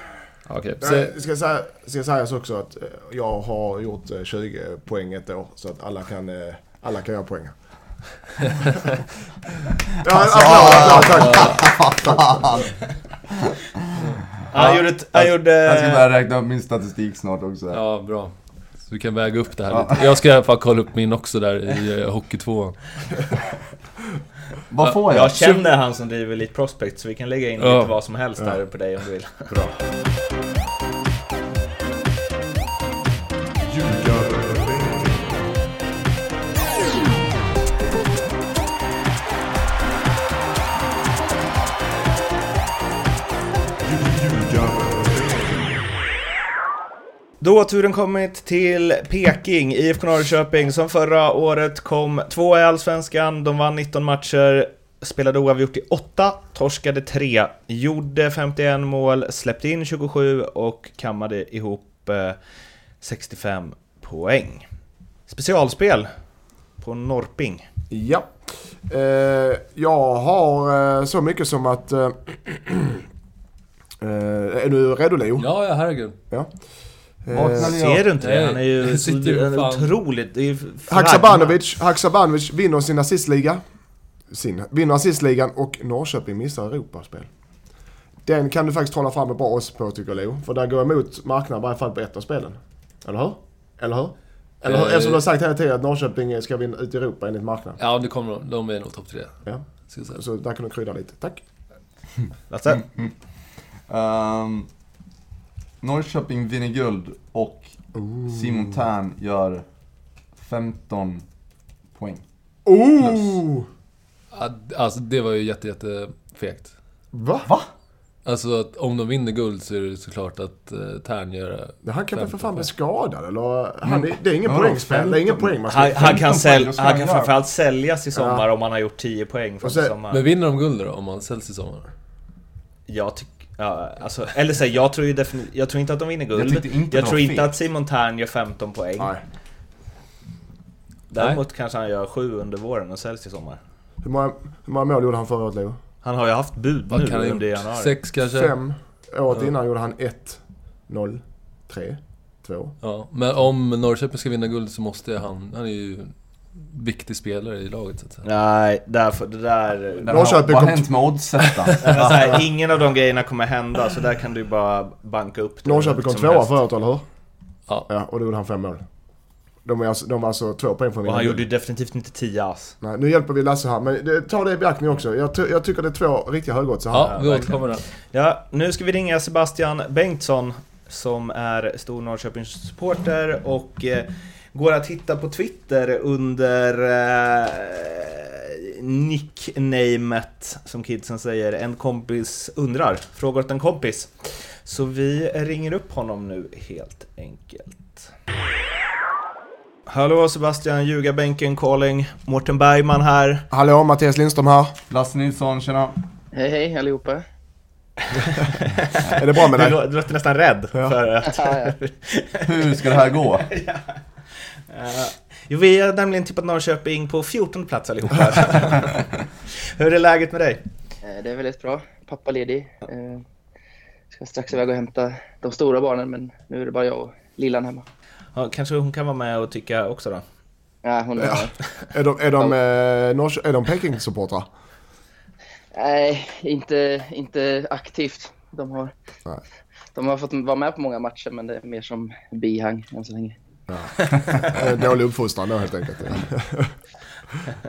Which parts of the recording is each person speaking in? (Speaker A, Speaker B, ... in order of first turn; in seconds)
Speaker A: 0.5-1.1, 11.1-11.7, 17.7-22.9, 24.8-25.6, 27.6-27.9, 75.4-76.2, 78.2-79.9, 94.7-95.2, 97.8-100.2, 113.0-113.3, 114.3-116.7, 118.2-122.7, 130.1-131.9, 146.9-148.6, 152.8-158.2, 176.9-177.9
Speaker B: 0.8-7.6, 10.0-12.4, 33.9-35.1, 67.9-73.0, 74.0-75.5, 77.2-77.8, 80.9-83.6, 84.3-87.3, 88.2-97.8, 99.5-101.4, 108.0-108.7, 112.7-113.7, 117.1-117.5, 121.8-126.1, 128.2-128.4, 129.6-129.9, 144.0-145.8, 148.2-152.8, 160.1-160.9, 165.7-167.1, 167.9-168.8, 169.6-171.4, 172.8-177.3, 203.5-204.8, 209.1-209.8, 231.2-234.5, 243.7-246.8
Speaker C: 10.1-12.7, 14.5-17.9, 19.7-20.1, 24.7-25.4, 77.3-78.1, 102.7-104.7, 105.8-109.7, 110.3-111.3, 111.9-112.2, 117.5-117.7, 123.8-127.3, 136.3-137.5, 160.0-162.4, 204.9-206.0, 212.4-213.5
Speaker D: 14.5-16.1, 25.1-29.6, 47.4-62.4, 63.0-64.7, 65.3-66.1, 66.8-67.7, 77.6-81.6, 102.5-102.8, 125.7-130.2, 132.9-139.2, 141.1-143.6, 146.0-148.0, 158.2-160.1, 161.8-166.6, 171.0-172.8, 177.0-198.1, 199.9-203.5, 208.2-220.7, 228.3-230.2
Speaker E: 206.3-207.2, 211.3-211.7, 221.0-223.2, 224.1-227.8, 230.8-231.5, 235.7-238.9, 239.9-243.4